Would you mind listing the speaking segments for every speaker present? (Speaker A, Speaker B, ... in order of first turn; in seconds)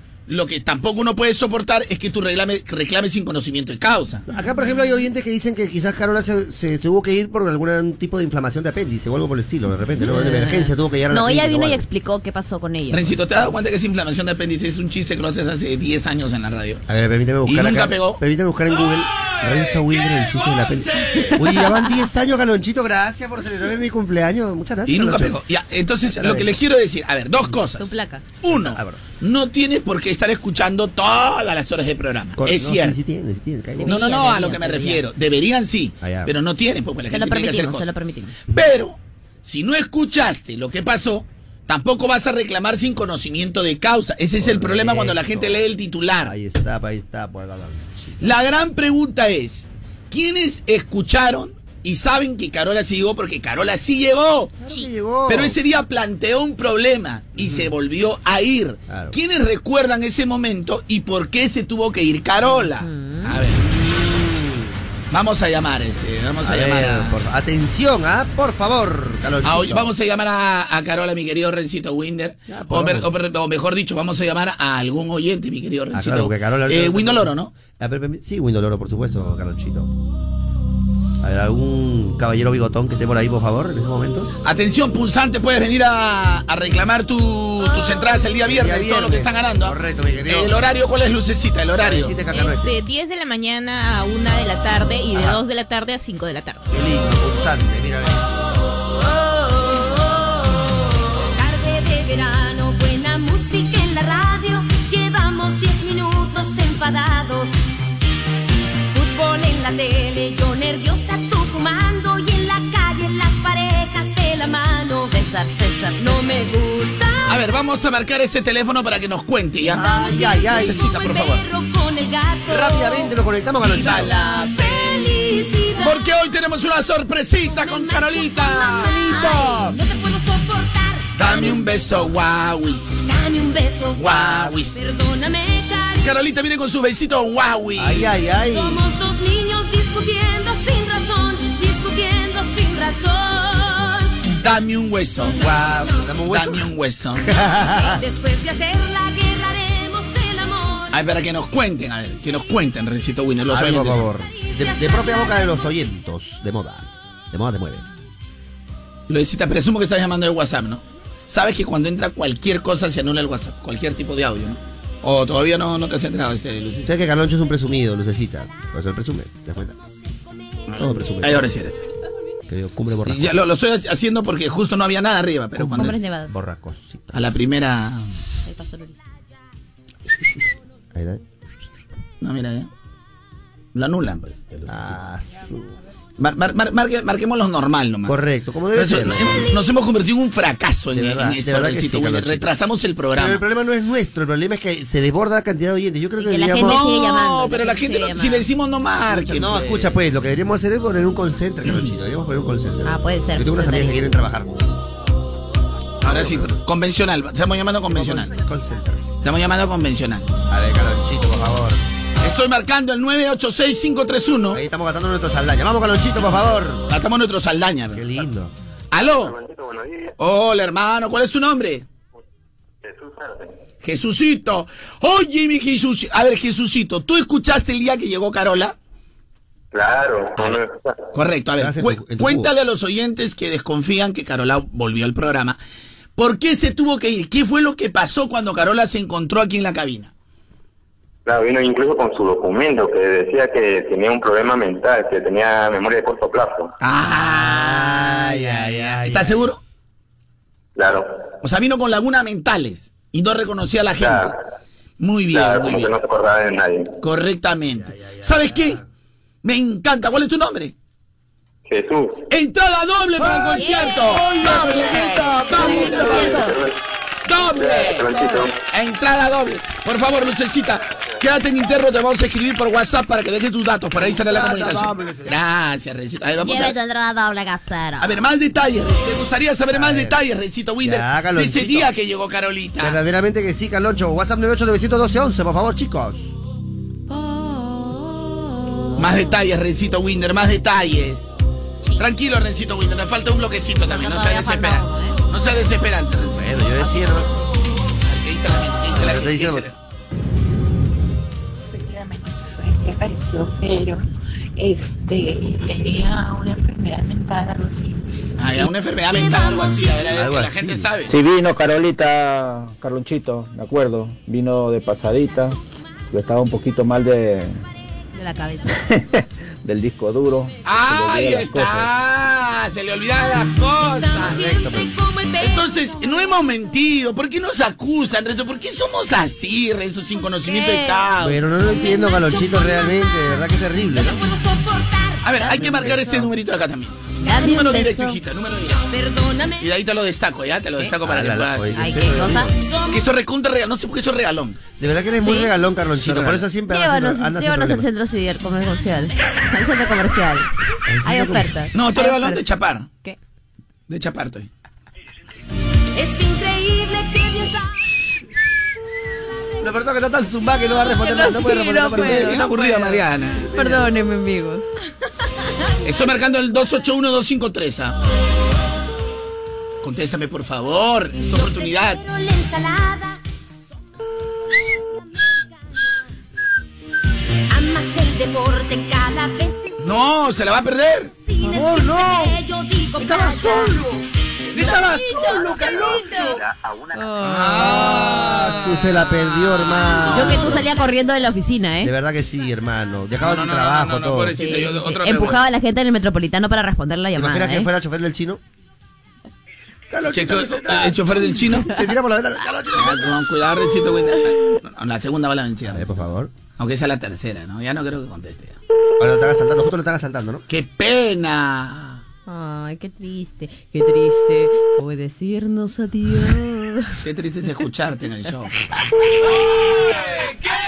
Speaker A: 0.3-4.2, 12.9-16.8, 17.5-18.2, 24.9-33.0, 33.9-37.9, 38.5-46.3, 48.2-54.5, 55.3-63.6, 65.1-67.2, 69.4-77.5, 84.4-92.2, 117.3-119.8, 120.5-121.4, 123.7-124.9, 125.8-129.1, 131.2-133.0, 134.0-134.8, 136.0-138.1, 144.3-145.5, 146.3-147.3, 150.9-154.1, 159.1-166.9, 170.7-171.8, 173.1-176.0, 177.1-178.1, 182.2-182.7, 183.8-185.0, 186.2-188.2, 188.7-193.4, 196.6-199.9, 201.7-201.9, 206.0-208.4, 209.2-210.3, 212.2-214.6, 216.9-218.2, 218.9-219.3, 220.2-221.8, 223.8-228.8, 231.1-235.6, 236.2-240.1, 246.8-249.6, 251.4-254.3, 255.0-255.9, 257.0-258.8, 259.4-260.7, 262.3-266.4, 267.3-276.8, 278.0-283.0, 289.0-291.3, 292.0-296.6, 298.1-299.8, 308.4-311.2, 320.6-324.5, 325.4-331.4, 335.2-338.9, 339.6-342.0, 342.9-344.6, 346.0-346.4, 351.7-352.9, 353.9-354.5, 362.0-363.5, 365.8-368.0, 369.8-372.0, 379.8-381.1, 387.2-390.6, 393.2-395.4, 400.1-401.8, 402.8-406.0, 406.6-408.6, 410.5-412.0, 417.0-418.5
Speaker B: 4.3-11.8, 16.9-25.4, 26.1-26.5, 28.4-29.0, 32.4-34.1, 36.0-36.3, 44.4-45.6, 46.2-48.3, 54.6-55.6, 57.4-57.7, 58.9-59.2, 63.7-64.7, 66.4-69.9, 72.5-73.1, 75.9-79.9, 81.2-84.4, 88.5-90.5, 91.8-92.7, 95.1-95.4, 96.7-98.4, 119.7-120.9, 122.5-124.2, 128.7-129.8, 137.8-138.8, 145.4-148.0, 153.5-157.8, 166.8-169.7, 170.8-171.5, 172.5-173.4, 175.7-177.2, 180.9-181.2, 184.7-185.7, 188.1-189.5, 190.9-192.5, 193.2-196.8, 199.1-204.6, 206.0-206.5, 207.9-209.1, 210.5-211.8, 214.5-216.8, 217.9-218.5, 231.6-232.5, 247.0-249.5, 257.7-258.8, 264.1-266.5, 273.9-275.4, 279.7-280.2, 280.8-281.9, 282.8-286.3, 296.3-297.3, 298.9-299.6, 310.1-310.9, 324.2-324.9, 331.2-334.2, 335.6-336.3, 341.0-342.6, 344.8-347.9, 350.9-351.5, 359.6-362.4, 381.4-382.4, 383.0-386.2, 387.6-390.7, 391.8-394.4, 397.1-398.4, 399.9-403.1, 405.7-406.3, 409.0-410.4
Speaker C: 10.0-13.1, 21.2-21.9, 27.7-28.2, 33.8-35.0, 37.1-38.4, 62.8-63.4, 115.1-116.5, 175.6-176.4, 178.5-178.9, 196.2-198.5, 202.8-204.1, 264.4-266.5, 276.4-278.2, 287.1-289.2, 293.9-295.2, 318.1-318.8, 330.5-331.0, 335.4-336.1, 337.2-338.2, 341.8-342.5, 345.2-345.5, 346.7-350.5, 351.1-352.4, 360.8-363.0, 363.5-364.7, 385.8-386.4, 386.9-388.0, 390.1-391.9, 394.4-397.7, 412.3-417.0
Speaker D: 92.3-96.6
Speaker E: 99.7-99.9, 101.4-107.6, 108.9-115.2, 116.0-117.4, 119.7-123.1, 123.6-126.0, 127.5-131.6, 133.0-136.2, 138.4-144.2, 147.7-151.0, 154.3-155.6, 309.1-310.1, 323.8-326.4, 331.7-333.3, 334.0-335.5, 338.9-339.7, 342.6-343.0, 355.9-357.9, 371.2-373.2, 374.7-375.4, 377.5-380.0, 381.2-383.8, 384.6-386.4
Speaker F: 219.0-220.2, 222.8-223.6, 229.7-231.0, 241.3-246.7, 250.8-251.2, 254.0-254.4, 255.3-256.9, 261.7-262.3, 266.0-266.8, 267.5-268.5, 385.6-387.2
Speaker G: 301.7-308.3
Speaker H: 311.1-315.6, 316.1-317.6, 318.9-321.9